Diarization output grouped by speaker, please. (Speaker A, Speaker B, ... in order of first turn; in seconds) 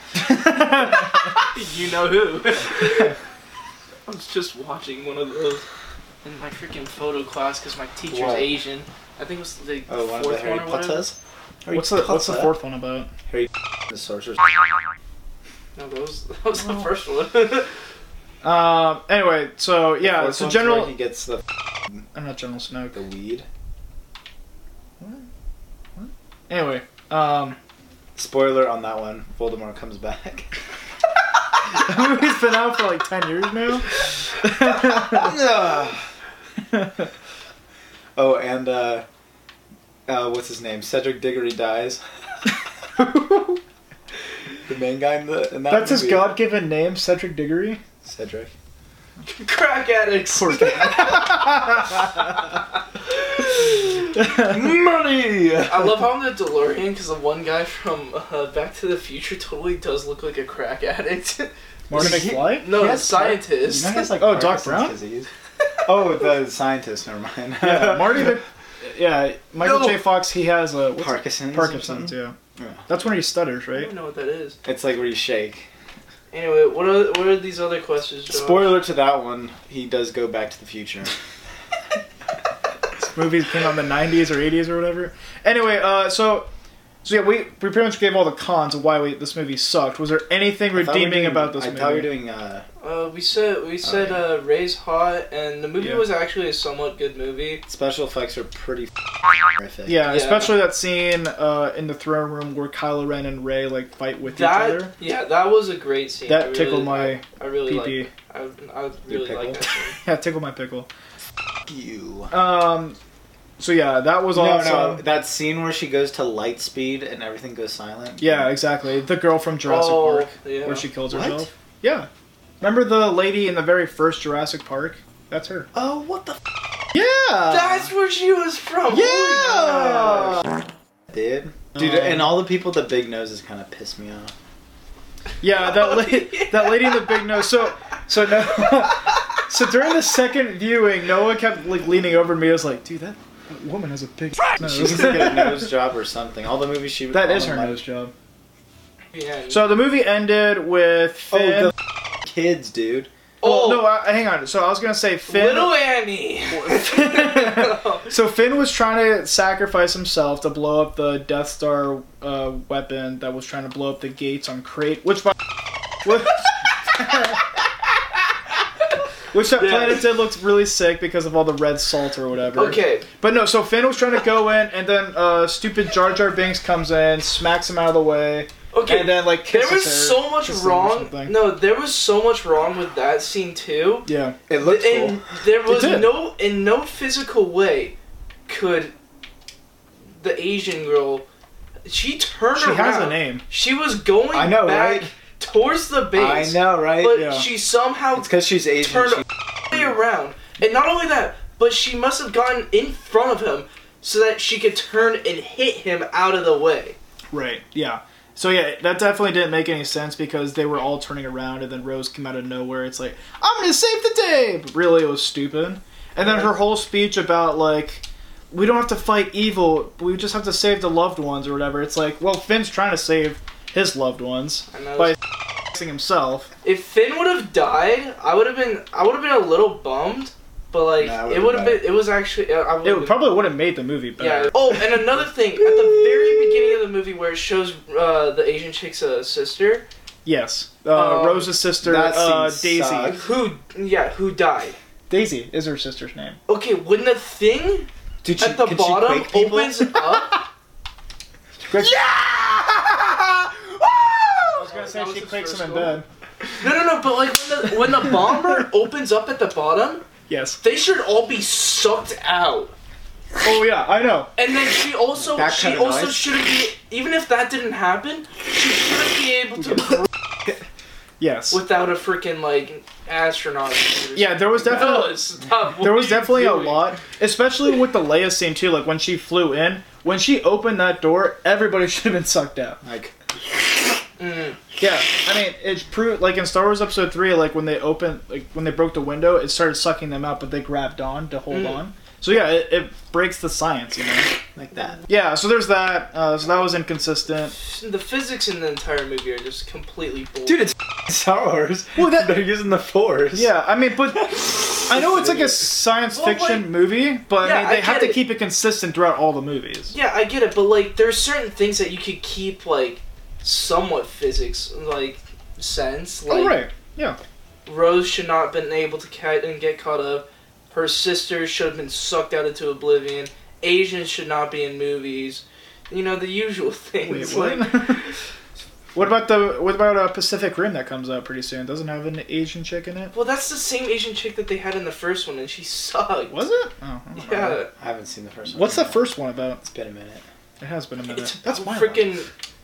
Speaker A: 0.1-1.3, 11.7-13.1, 16.6-16.9, 18.4-20.9, 22.1-23.0, 25.0-25.3, 26.0-27.6, 31.7-35.4, 36.7-37.0, 43.0-43.6, 45.7-47.8, 50.3-52.1, 54.2-54.5, 61.9-62.9, 64.0-65.0, 67.6-73.9, 83.0-86.5, 87.0-92.1, 95.8-96.1, 99.9-104.9, 106.3-108.1, 110.0-110.9, 112.3-113.0, 113.6-115.0, 118.2-122.1, 122.6-125.7, 126.9-127.9, 128.9-130.4, 135.4-145.7, 147.1-148.1, 149.5-151.7, 153.4-155.7, 156.5-165.4, 166.0-167.4, 169.3-181.5, 184.1-184.4, 185.7-186.2, 192.6-193.4, 197.1-197.5, 207.3-226.5, 232.8-235.0, 240.2-243.2, 245.1-246.4, 251.7-252.0, 254.6-256.1, 260.3-260.6, 263.4-264.3, 271.2-271.6, 274.1-282.8, 284.8-294.3, 295.1-297.6, 302.0-302.4, 303.3-309.9, 316.3-317.2, 327.0-328.0, 328.9-333.1, 336.3-337.6, 338.5-339.6, 340.6-342.1
Speaker B: 1.4-3.2, 4.1-5.7, 6.2-11.1, 15.8-17.7, 49.2-52.5, 53.4-53.7, 55.7-64.1, 73.7-74.6, 76.3-78.8, 92.8-97.6, 100.1-100.6, 104.2-110.0, 119.7-120.9, 127.5-130.4, 135.5-137.3, 149.1-149.8, 153.4-153.9, 155.3-158.1, 169.6-170.1, 172.5-173.1, 178.7-188.0, 188.5-188.9, 190.2-191.3, 191.8-207.0, 216.2-216.6, 224.7-225.2, 226.6-233.3, 234.2-239.8, 240.9-241.6, 243.1-244.8, 246.5-250.4, 254.4-256.0, 256.6-260.1, 260.6-262.7, 264.4-270.1, 271.5-277.0, 284.2-284.6, 291.5-291.8, 297.6-300.7, 306.1-306.8, 307.3-308.2, 309.9-316.7, 317.7-328.1, 333.1-336.5, 337.2-337.7, 341.1-342.3
Speaker C: 8.1-8.5, 9.9-12.6, 13.3-14.7, 20.0-21.4, 22.9-23.5, 28.2-30.5, 34.8-36.1, 38.2-39.0, 40.1-42.0, 44.7-46.4, 48.0-48.5, 54.3-56.1, 61.9-65.3, 65.8-68.4, 71.0-72.8, 74.6-75.7, 78.3-81.1, 90.8-92.7, 93.8-94.2, 97.7-100.0, 109.1-109.7, 111.7-112.3, 114.3-118.5, 121.1-121.5, 125.8-126.5, 131.1-134.3, 144.6-147.8, 152.2-153.1, 184.5-185.2, 194.3-195.1, 196.2-197.2, 198.2-199.2, 231.0-231.8, 241.8-243.3, 248.2-249.8, 252.1-253.3, 254.0-254.4, 265.3-266.3, 282.8-283.1, 294.6-295.1, 300.6-303.5, 305.0-305.6, 337.8-339.1, 339.6-340.2